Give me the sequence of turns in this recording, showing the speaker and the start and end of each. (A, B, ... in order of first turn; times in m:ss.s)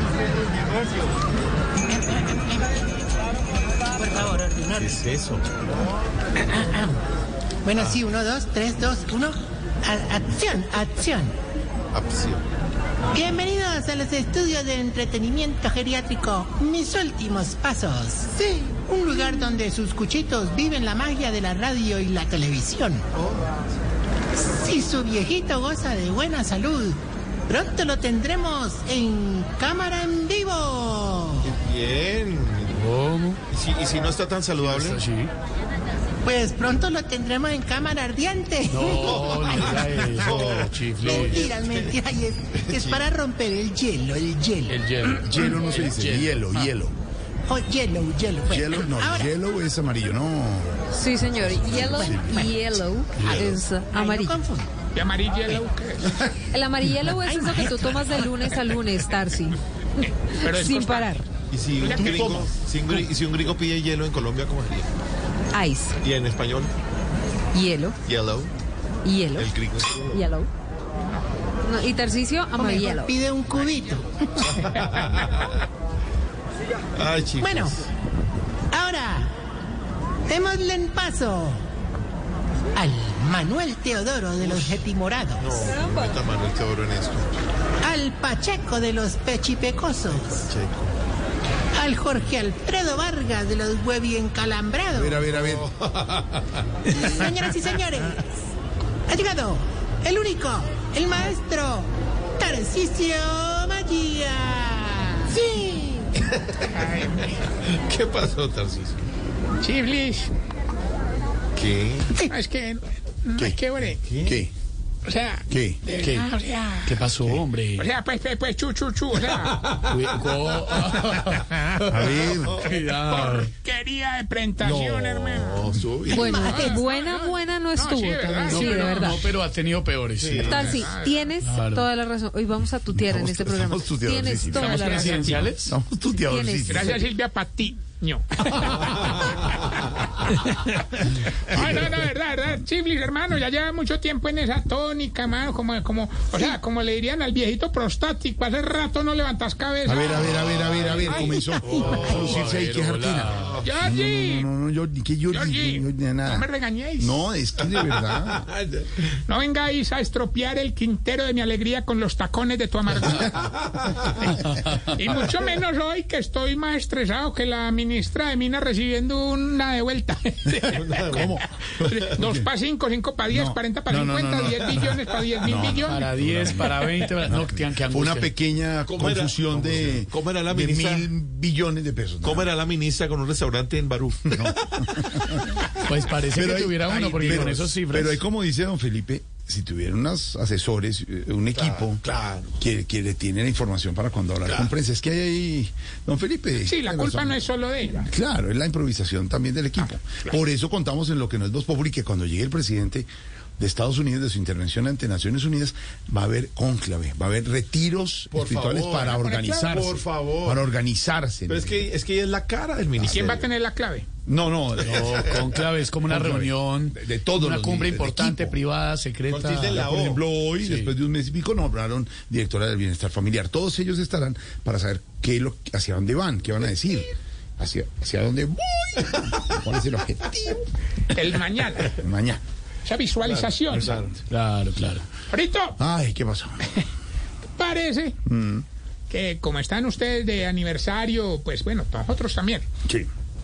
0:04.0-0:04.9 A
0:04.7-0:05.5 B
0:06.4-0:07.0 A
0:07.6-0:11.3 A
0:11.9-0:12.4 B
0:13.1-0:23.0 A
0:23.1-0:23.5 B
0:24.4-0:31.5 A
0:31.4-0:32.8 B
0:32.8-0:33.4 C
0:33.5-0:35.0 B
0:34.6-0:35.3 C
0:36.2-0:39.7 A
0:38.7-0:41.4 C
0:39.0-0:41.5 B
0:41.0-0:44.8 A
0:42.7-0:43.0 B
0:44.7-0:46.5 C
0:45.2-0:46.9 D
0:47.5-0:49.3 A
0:48.5-0:50.8 D
0:50.9-0:54.4 E
0:51.7-0:52.5 A
0:51.8-0:52.3 D
0:53.9-0:54.7 A
0:54.9-0:56.3 F
0:56.5-1:01.2 E
0:57.2-0:58.3 A
1:00.3-1:01.2 F
1:01.5-1:04.9 B
1:01.8-1:02.4 F
1:02.0-1:02.5 D
1:05.5-1:06.0 E
1:06.0-1:06.7 B
1:07.5-1:08.0 E
1:08.0-1:08.5 B
1:09.0-1:09.5 E
1:09.4-1:10.2 B
1:10.1-1:10.5 E
1:11.6-1:13.1 E
1:12.6-1:14.4 A
1:14.6-1:15.6 B
1:17.0-1:17.8 B
1:17.4-1:17.8 A
1:18.7-1:19.3 A
1:20.3-1:21.6 A
1:22.7-1:25.5 A
1:24.4-1:24.8 B
1:25.4-1:27.3 B
1:27.8-1:30.5 A
1:30.4-1:30.9 B
1:31.7-1:35.2 A
1:34.9-1:35.7 D
1:35.3-1:36.6 B
1:36.9-1:38.2 A
1:39.1-1:46.1 A
1:46.3-1:47.0 B
1:46.7-1:47.4 F
1:47.6-1:49.0 B
1:49.6-1:50.3 F
1:51.6-1:52.1 B
1:52.3-1:54.0 F
1:54.0-1:54.4 B
1:54.2-1:54.5 D
1:55.0-1:56.9 F
1:55.5-1:55.8 D
1:56.0-1:56.3 C
1:56.8-1:57.9 C
1:57.8-1:59.6 F
1:59.3-2:01.2 B
1:59.9-2:03.5 C
2:01.9-2:02.6 D
2:01.9-2:03.1 B
2:03.1-2:09.2 F
2:04.6-2:06.8 B
2:06.1-2:09.2 E
2:08.4-2:10.8 C
2:10.2-2:10.8 B
2:10.4-2:15.4 E
2:10.5-2:11.3 F
2:11.4-2:11.8 C
2:12.9-2:14.9 D
2:14.5-2:15.5 F
2:14.7-2:15.7 C
2:15.6-2:17.0 D
2:16.3-2:16.9 E
2:16.7-2:19.6 F
2:21.0-2:32.0 F
2:29.8-2:36.4 D
2:30.3-2:32.6 B
2:32.3-2:33.6 C
2:33.3-2:33.6 B
2:33.6-2:34.5 F
2:35.3-2:37.2 F
2:37.0-2:38.4 D
2:37.7-2:38.9 B
2:39.3-2:43.4 F
2:43.4-2:44.1 B
2:44.5-2:44.8 C
2:44.9-2:51.3 F
2:50.7-2:51.3 B
2:51.1-2:52.5 D
2:51.8-2:56.1 F
2:53.3-3:02.5 D
2:55.9-2:58.3 C
2:58.8-3:01.1 B
3:02.2-3:04.9 B
3:04.3-3:05.4 D
3:05.9-3:08.2 C
3:06.3-3:12.0 D
3:06.8-3:07.7 B
3:11.5-3:12.6 B
3:12.6-3:17.4 D
3:16.6-3:18.1 F
3:18.0-3:23.1 D
3:19.8-3:20.4 F
3:23.6-3:31.8 D
3:28.3-3:30.6 B
3:29.1-3:29.8 F
3:31.5-3:33.5 B
3:33.1-3:34.1 F
3:34.2-3:35.3 D
3:34.8-3:39.9 C
3:35.0-3:35.4 B
3:36.0-3:38.6 D
3:39.3-3:40.2 B
3:39.7-3:50.6 D
3:40.6-3:40.9 C
3:51.1-3:52.0 F
3:51.8-3:52.4 D
3:52.8-3:54.0 F
3:53.2-3:54.1 B
3:54.3-3:55.0 C
3:55.3-3:55.8 F
3:55.8-3:56.8 D
3:57.6-3:58.2 F
3:58.2-3:58.6 D
3:59.1-4:02.7 F